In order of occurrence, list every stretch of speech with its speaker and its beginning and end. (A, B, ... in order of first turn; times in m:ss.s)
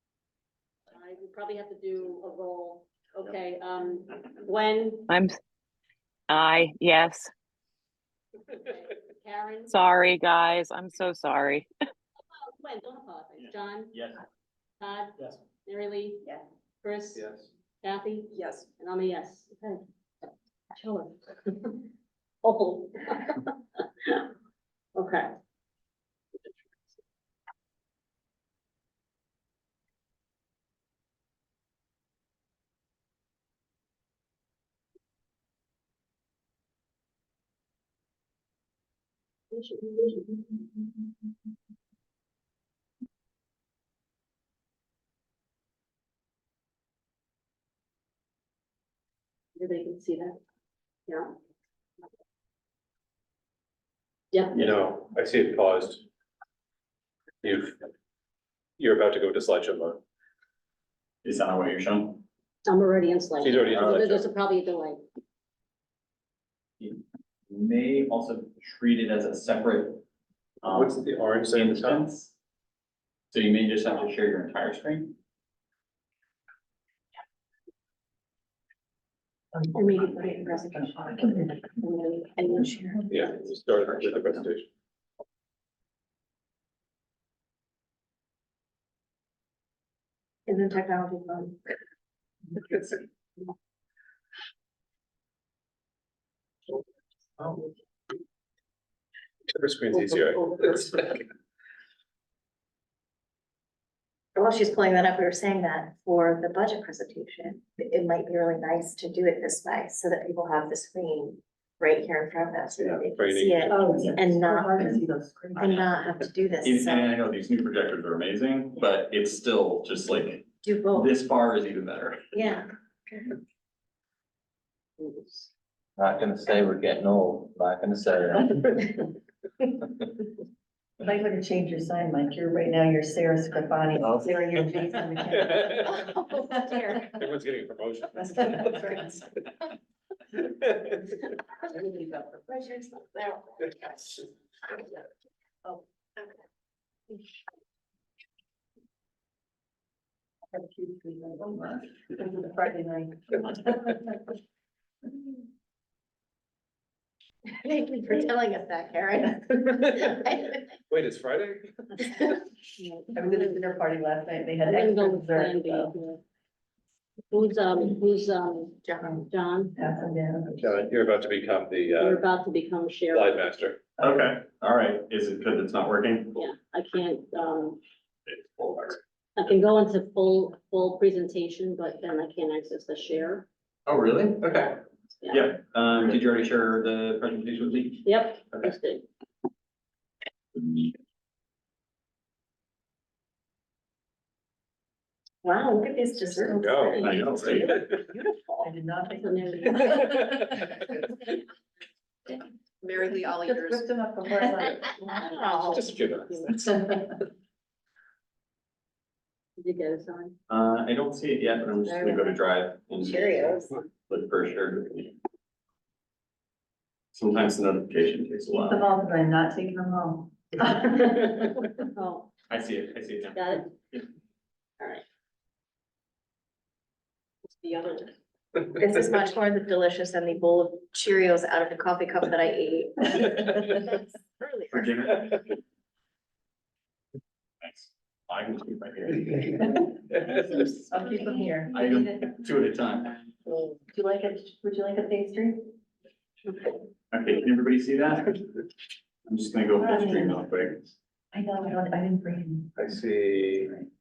0:00.9-0:05.1 A
0:05.1-0:05.4 B
0:06.3-0:07.3 B
0:08.6-0:09.8 A
0:09.7-0:11.7 B
0:12.3-0:13.9 A
0:13.4-0:14.2 C
0:14.8-0:16.3 A
0:16.8-0:17.2 A
0:17.2-0:17.5 D
0:17.8-0:19.8 A
0:20.7-0:21.9 A
0:22.4-0:24.3 A
0:25.0-0:25.3 A
0:39.5-0:40.4 A
0:49.6-0:50.4 A
0:51.1-0:51.3 A
0:54.3-0:54.7 A
0:54.5-0:56.0 D
0:57.4-0:57.8 D
0:58.8-1:00.0 D
1:01.2-1:02.2 C
1:02.7-1:05.0 A
1:03.4-1:04.3 D
1:06.8-1:10.0 C
1:10.6-1:12.3 C
1:10.6-1:12.0 D
1:13.3-1:15.2 C
1:19.5-1:21.7 E
1:19.7-1:23.1 F
1:23.1-1:24.7 D
1:30.5-1:31.7 F
1:39.6-1:41.1 D
1:40.1-1:40.8 A
1:44.4-1:55.0 F
1:52.8-1:53.8 D
1:53.7-1:55.9 E
1:55.6-1:57.1 F
1:56.6-2:02.2 C
2:00.6-2:01.1 F
2:02.3-2:03.3 F
2:06.0-2:08.8 G
2:11.0-2:15.9 E
2:14.0-2:14.4 C
2:15.4-2:15.9 D
2:15.7-2:17.2 F
2:17.2-2:18.9 D
2:18.2-2:19.2 E
2:21.7-2:22.4 E
2:22.5-2:24.3 F
2:30.5-2:34.3 E
2:37.5-2:40.7 F
2:40.9-2:41.8 D
2:42.8-2:43.2 A
2:43.1-2:46.0 E
2:44.6-2:46.2 A
2:47.3-2:49.7 A
2:48.8-2:49.3 F
2:49.8-2:50.6 E
2:50.6-2:52.2 D
2:52.0-2:53.5 A
2:53.1-2:53.8 D
2:54.0-2:56.4 C
2:56.4-2:57.8 A
2:58.3-2:59.0 C
2:59.4-3:03.5 A
3:03.9-3:08.8 C
3:05.2-3:05.5 A
3:08.0-3:09.1 A
3:15.4-3:18.7 F
3:16.2-3:17.2 E
3:16.6-3:18.0 D
3:17.0-3:17.8 C
3:18.6-3:20.8 E
3:19.2-3:20.1 A
3:22.8-3:23.9 F
3:23.4-3:25.4 E
3:24.6-3:25.9 F
3:25.4-3:26.6 A
3:25.6-3:26.7 D
3:29.6-3:30.4 A
3:30.5-3:35.2 C
3:31.8-3:32.4 F
3:33.0-3:33.7 F
3:37.1-3:38.9 C
3:38.5-3:41.7 E
3:41.9-3:42.3 A
3:42.5-3:44.1 C
3:43.3-3:43.7 A
3:47.6-3:48.1 A
3:48.7-3:55.4 F
3:54.7-3:55.3 C
3:57.6-3:59.7 C
4:00.2-4:02.2 F
4:00.9-4:01.8 E
4:01.7-4:03.3 C
4:03.9-4:05.7 E
4:07.1-4:08.5 C
4:09.3-4:10.9 C
4:09.8-4:10.4 E
4:11.3-4:12.9 E
4:12.8-4:13.7 D
4:13.6-4:13.9 E